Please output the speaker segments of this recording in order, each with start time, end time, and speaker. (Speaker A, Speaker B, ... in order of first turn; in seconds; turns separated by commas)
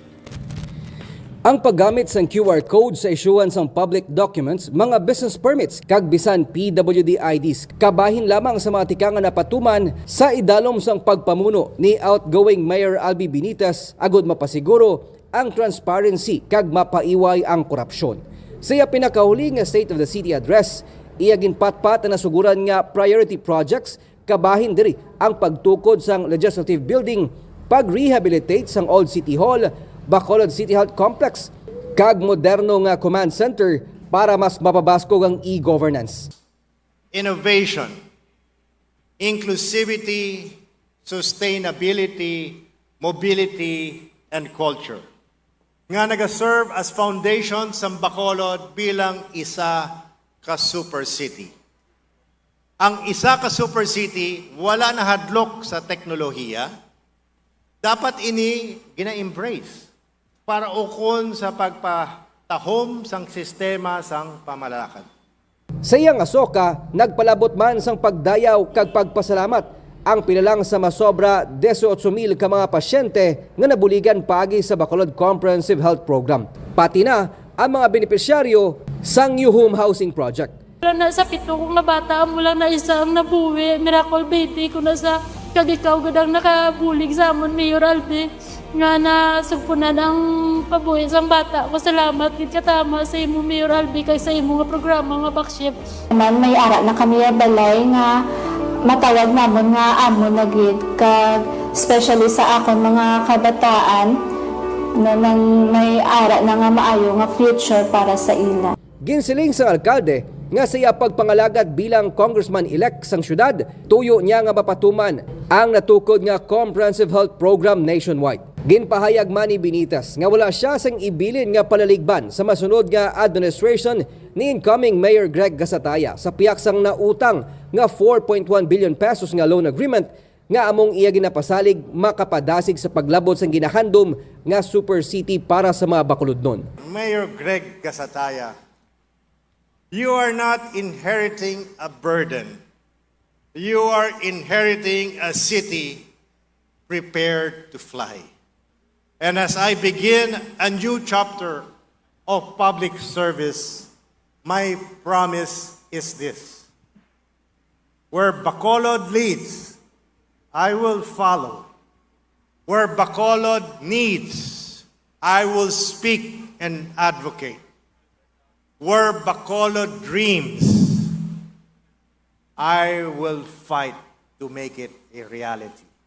Speaker A: 1.4-36.3, Speaker B: 37.1-37.9, Speaker B: 39.2-45.0, Speaker B: 45.9-51.5, Speaker B: 52.8-56.7, Speaker B: 57.8-59.9, Speaker B: 60.5-65.1, Speaker A: 65.8-80.5, Speaker C: 80.8-95.8, Speaker D: 96.1-98.2, Speaker D: 98.8-104.1, Speaker D: 105.0-108.7, Speaker A: 109.0-136.7, Speaker B: 136.8-138.6, Speaker B: 139.9-142.6, Speaker B: 143.5-146.0, Speaker B: 146.9-148.3, Speaker B: 149.2-151.7, Speaker B: 152.2-153.9, Speaker B: 154.4-156.7, Speaker B: 158.1-159.8, Speaker B: 160.5-161.7, Speaker B: 162.7-167.6, Speaker B: 168.8-171.2, Speaker B: 172.6-175.8